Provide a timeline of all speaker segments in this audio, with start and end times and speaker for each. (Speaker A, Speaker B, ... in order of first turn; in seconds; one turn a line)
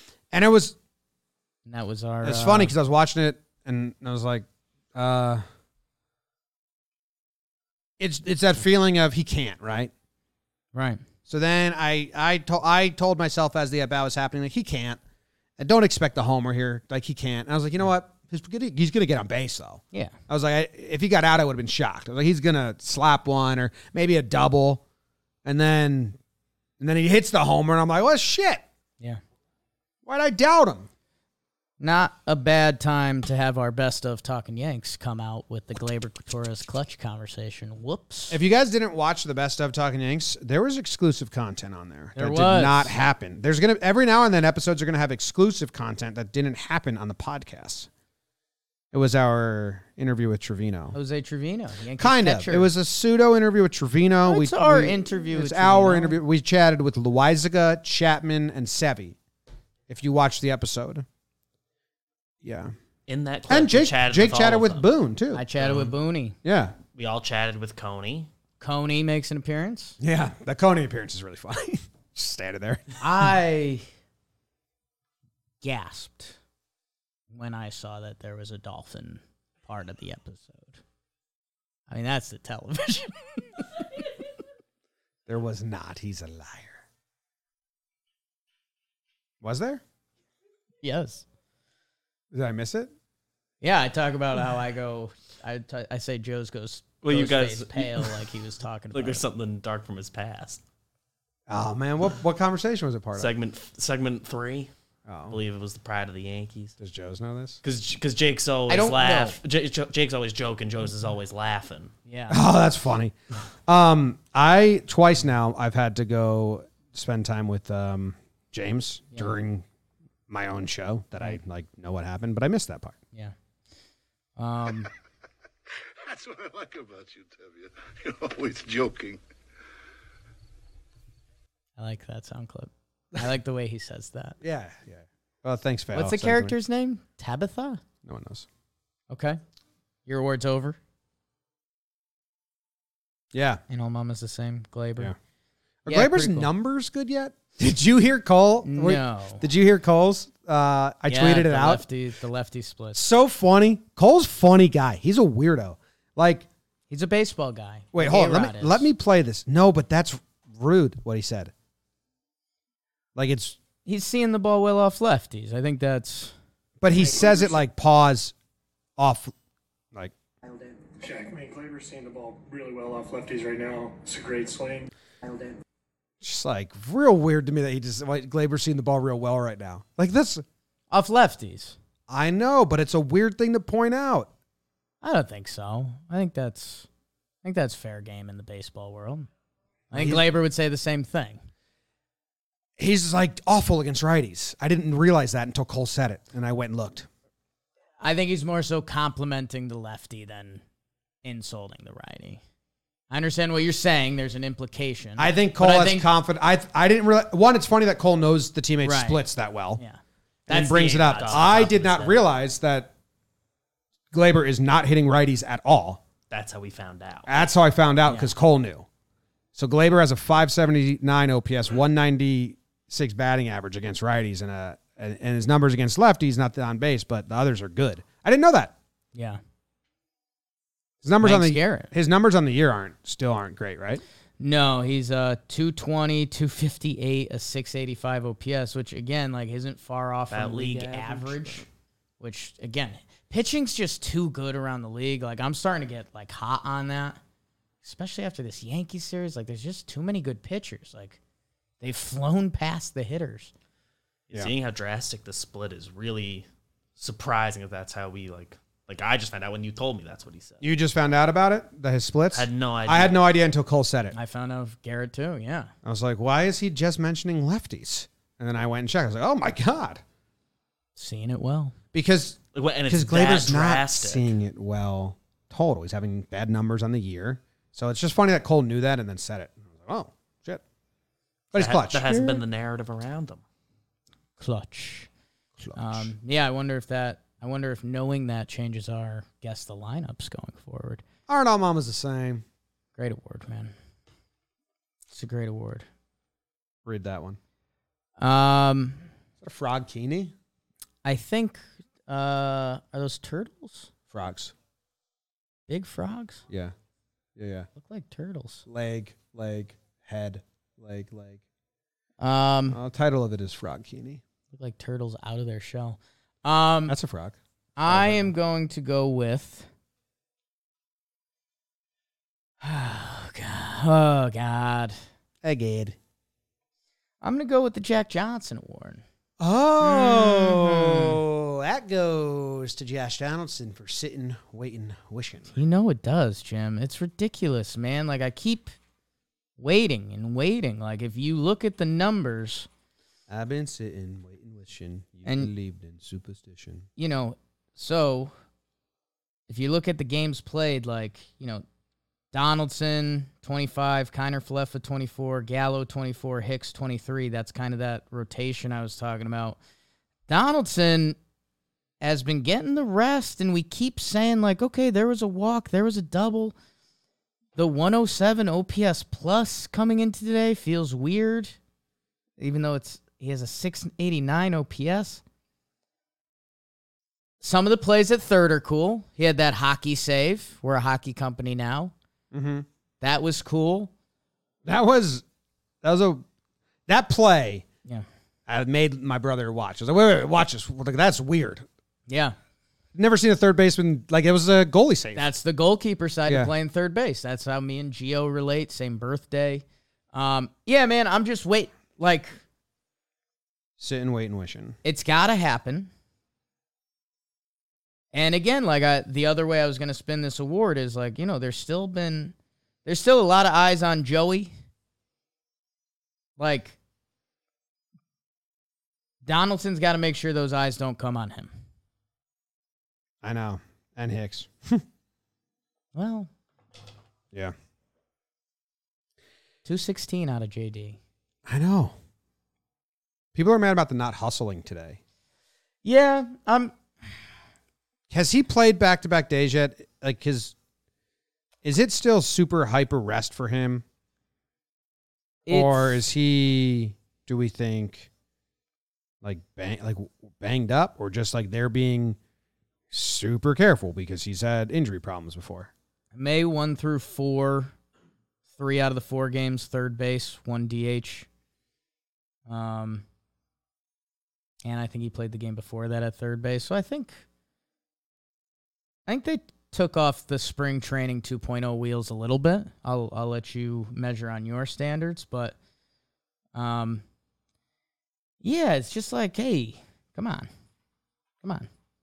Speaker A: 0.3-0.8
Speaker B: 1.7-2.7
Speaker A: 2.2-5.4
Speaker A: 8.0-9.9
Speaker B: 10.7-11.0
Speaker A: 11.3-15.0
Speaker A: 15.6-24.8
Speaker A: 25.4-26.2
Speaker A: 26.8-28.6
Speaker A: 30.1-30.9
Speaker B: 31.8-38.4
Speaker A: 38.3-47.9
Speaker B: 42.2-42.9
Speaker A: 48.9-51.0
Speaker B: 50.9-52.7
Speaker A: 52.0-59.2
Speaker B: 54.2-56.2
Speaker A: 59.9-61.1
Speaker A: 62.4-62.7
Speaker C: 63.1-64.9
Speaker A: 63.5-65.5
Speaker B: 65.3-66.4
Speaker C: 65.6-65.9
Speaker A: 66.4-66.8
Speaker C: 67.0-68.3
Speaker B: 68.6-70.0
Speaker A: 70.0-73.3
Speaker B: 73.0-73.8
Speaker B: 75.6-76.4
Speaker B: 77.3-80.8
Speaker B: 81.9-83.7
Speaker A: 85.3-86.8
Speaker A: 89.4-89.8
Speaker B: 90.8-91.2
Speaker A: 92.3-92.9
Speaker B: 93.6-99.2
Speaker C: 97.0-98.2
Speaker C: 98.9-100.6
Speaker A: 101.5-103.3
Speaker C: 103.2-104.7
Speaker A: 105.1-105.4
Speaker C: 105.3-106.7
Speaker A: 106.8-107.6
Speaker C: 107.6-111.9
Speaker B: 108.7-109.4
Speaker B: 112.1-112.4
Speaker A: 112.3-113.2
Speaker A: 113.7-119.7
Speaker A: 120.3-123.0
Speaker B: 124.4-124.9
Speaker D: 126.0-129.2
Speaker B: 131.8-134.4
Speaker A: 134.4-136.6
Speaker B: 135.9-137.8
Speaker A: 138.0-138.5
Speaker B: 139.1-139.4
Speaker B: 140.1-140.8
Speaker A: 143.3-143.6
Speaker B: 143.7-145.1
Speaker A: 145.8-151.8
Speaker B: 145.9-146.5
Speaker B: 148.7-149.5
Speaker B: 151.1-153.0
Speaker A: 152.9-156.5
Speaker B: 156.9-158.9
Speaker A: 157.9-161.5
Speaker A: 163.2-163.6
Speaker B: 163.9-166.3
Speaker A: 166.8-168.3
Speaker A: 169.0-169.3
Speaker E: 171.0-174.9
Speaker A: 176.2-180.4
Speaker B: 180.9-181.8
Speaker A: 182.1-184.3
Speaker B: 185.0-186.9
Speaker B: 187.4-189.3
Speaker B: 189.9-191.4
Speaker A: 189.9-190.2
Speaker A: 192.8-197.1
Speaker B: 198.0-200.6
Speaker B: 201.2-202.4
Speaker B: 203.1-206.1
Speaker A: 205.2-209.8
Speaker B: 208.8-209.2
Speaker B: 209.8-212.0
Speaker A: 210.5-212.9
Speaker C: 210.5-212.2
Speaker A: 214.1-216.0
Speaker C: 216.3-217.5
Speaker A: 217.3-218.9
Speaker B: 218.1-218.3
Speaker A: 219.6-228.8
Speaker B: 229.1-229.4
Speaker A: 231.0-234.0
Speaker B: 231.2-231.9
Speaker B: 234.4-241.7
Speaker C: 240.3-241.7
Speaker B: 242.2-247.2
Speaker B: 247.8-251.2
Speaker B: 251.8-253.5
Speaker C: 254.3-256.5
Speaker C: 257.0-260.6
Speaker A: 260.6-264.1
Speaker C: 262.3-263.2
Speaker B: 264.1-265.7
Speaker A: 265.9-270.0
Speaker B: 271.0-271.8
Speaker A: 271.9-280.6
Speaker C: 272.6-274.4
Speaker A: 281.5-282.4
Speaker C: 281.6-283.4
Speaker B: 284.4-285.1
Speaker A: 285.6-286.1
Speaker B: 285.8-291.0
Speaker A: 291.3-292.4
Speaker B: 293.0-293.7
Speaker B: 295.1-295.9
Speaker A: 296.9-297.4
Speaker B: 298.2-299.1
Speaker A: 299.4-300.3
Speaker B: 301.0-303.9
Speaker A: 304.1-304.5
Speaker B: 305.7-306.4
Speaker A: 306.5-306.7
Speaker A: 307.4-307.7
Speaker B: 307.8-308.7
Speaker A: 308.7-311.4
Speaker B: 312.2-312.8
Speaker A: 312.7-314.2
Speaker B: 314.5-317.0
Speaker A: 316.9-318.3
Speaker B: 317.8-319.7
Speaker B: 322.6-325.0
Speaker A: 325.4-326.0
Speaker B: 327.2-329.0
Speaker A: 329.4-335.6
Speaker B: 329.8-331.2
Speaker B: 335.6-338.8
Speaker B: 339.6-342.7
Speaker A: 343.3-346.9
Speaker B: 345.3-345.5
Speaker B: 347.0-348.3
Speaker B: 349.5-351.6
Speaker B: 352.3-359.6
Speaker B: 360.3-361.2
Speaker B: 362.0-366.6
Speaker B: 367.6-371.6
Speaker B: 372.4-375.2
Speaker B: 377.4-381.9
Speaker A: 382.3-382.7
Speaker B: 383.0-383.9
Speaker A: 384.6-385.2
Speaker A: 385.8-386.2
Speaker A: 386.9-387.6
Speaker A: 388.5-391.7
Speaker B: 392.1-392.4
Speaker A: 392.9-395.3
Speaker B: 395.1-402.4
Speaker A: 396.3-396.5
Speaker A: 403.8-404.8
Speaker B: 404.8-405.9
Speaker B: 408.1-412.3
Speaker B: 412.9-414.5
Speaker B: 416.4-416.8
Speaker B: 419.2-421.5
Speaker A: 423.2-424.8
Speaker B: 425.9-426.3
Speaker B: 429.6-431.0
Speaker A: 431.5-431.9
Speaker A: 433.3-435.0
Speaker B: 435.8-436.8
Speaker A: 438.1-440.6
Speaker A: 441.6-443.8
Speaker B: 445.5-446.0
Speaker A: 445.5-448.1
Speaker A: 449.2-452.2
Speaker A: 452.9-455.7
Speaker B: 456.1-457.7
Speaker B: 458.6-461.3
Speaker B: 462.5-463.1
Speaker B: 464.6-467.2
Speaker B: 469.1-475.6
Speaker B: 476.5-477.0
Speaker B: 478.4-480.5
Speaker B: 481.4-481.7